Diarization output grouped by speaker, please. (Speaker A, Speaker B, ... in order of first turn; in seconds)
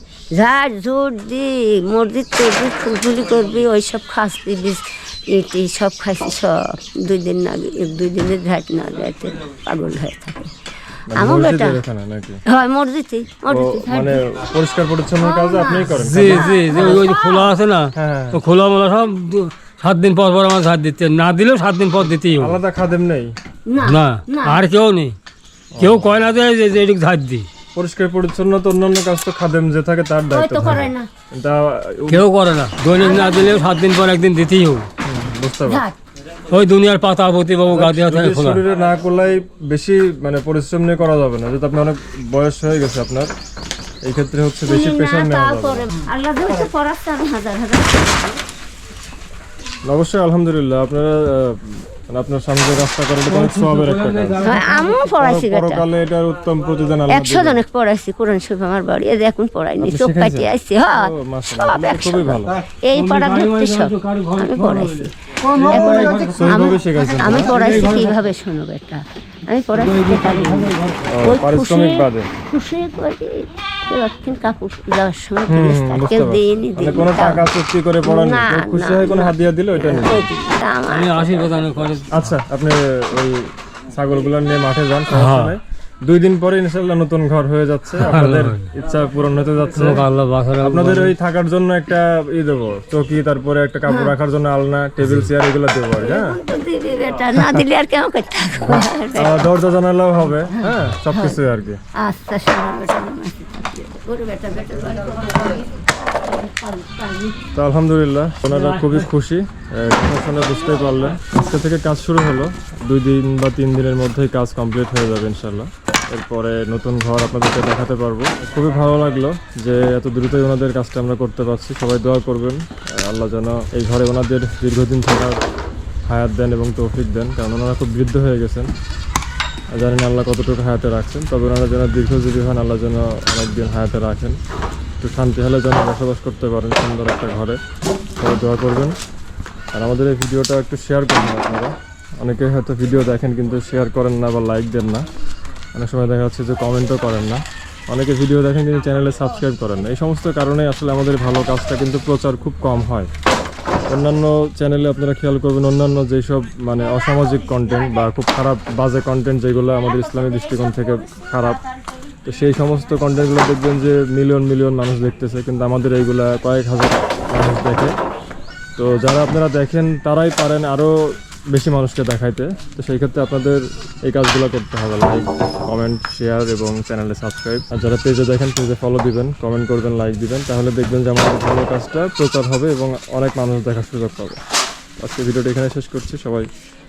Speaker A: 0.3-10.5, 11.1-11.8, 12.5-14.2, 15.2-17.5, 23.7-24.6, 30.3-31.1, 32.9-33.6, 35.6-36.0, 44.6-48.4, 54.4-55.8, 57.1-82.0, 93.9-94.1, 96.0-99.4, 100.5-101.4, 102.0-107.3, 156.8-158.1, 159.8-162.0
Speaker B: 11.1-12.4, 13.5-17.0, 17.9-18.4, 22.3-23.3, 25.7-26.1, 27.7-32.2, 35.0-35.8, 37.7-43.3, 44.0-45.9, 49.9-57.6, 59.8-62.6, 65.5-67.6, 71.0-72.3, 75.5-80.2, 82.1-90.0, 90.6-96.3, 98.6-101.8, 107.5-125.4, 126.1-128.7, 129.7-134.4, 135.0-137.6, 138.2-138.9, 139.7-145.0, 145.7-153.1, 153.9-161.6, 162.2-167.9, 168.8-170.9, 171.5-184.4, 185.0-186.5
Speaker C: 15.9-22.6, 23.8-25.1, 25.8-27.5, 32.1-34.9, 36.5-38.6, 53.3-55.0, 62.9-66.7, 67.2-68.2, 69.8-71.0, 80.9-82.3, 85.1-85.5, 88.0-88.7, 89.7-91.1, 95.0-95.3, 108.5-109.0